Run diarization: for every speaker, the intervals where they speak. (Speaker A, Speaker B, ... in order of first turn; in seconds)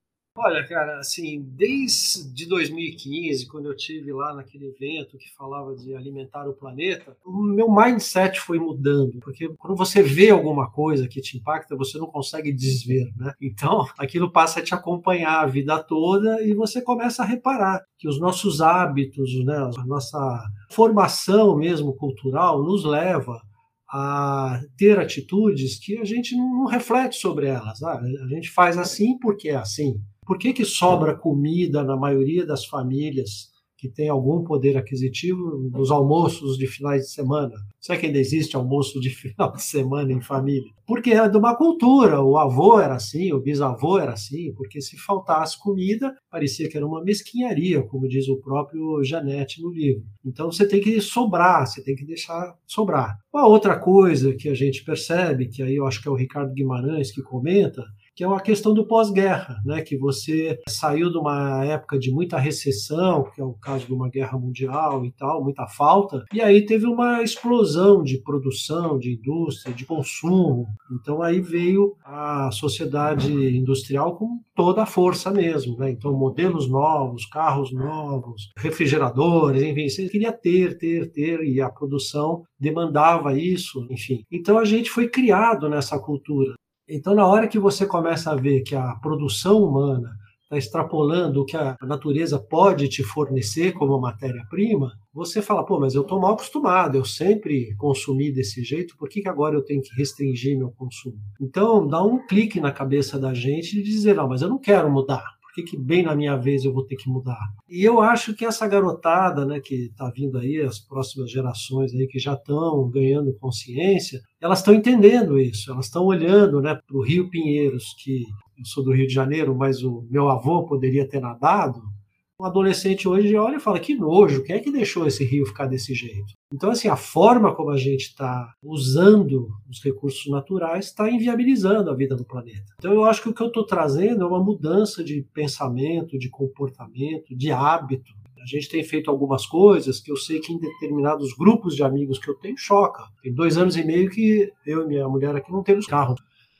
Speaker A: 0.4-146.2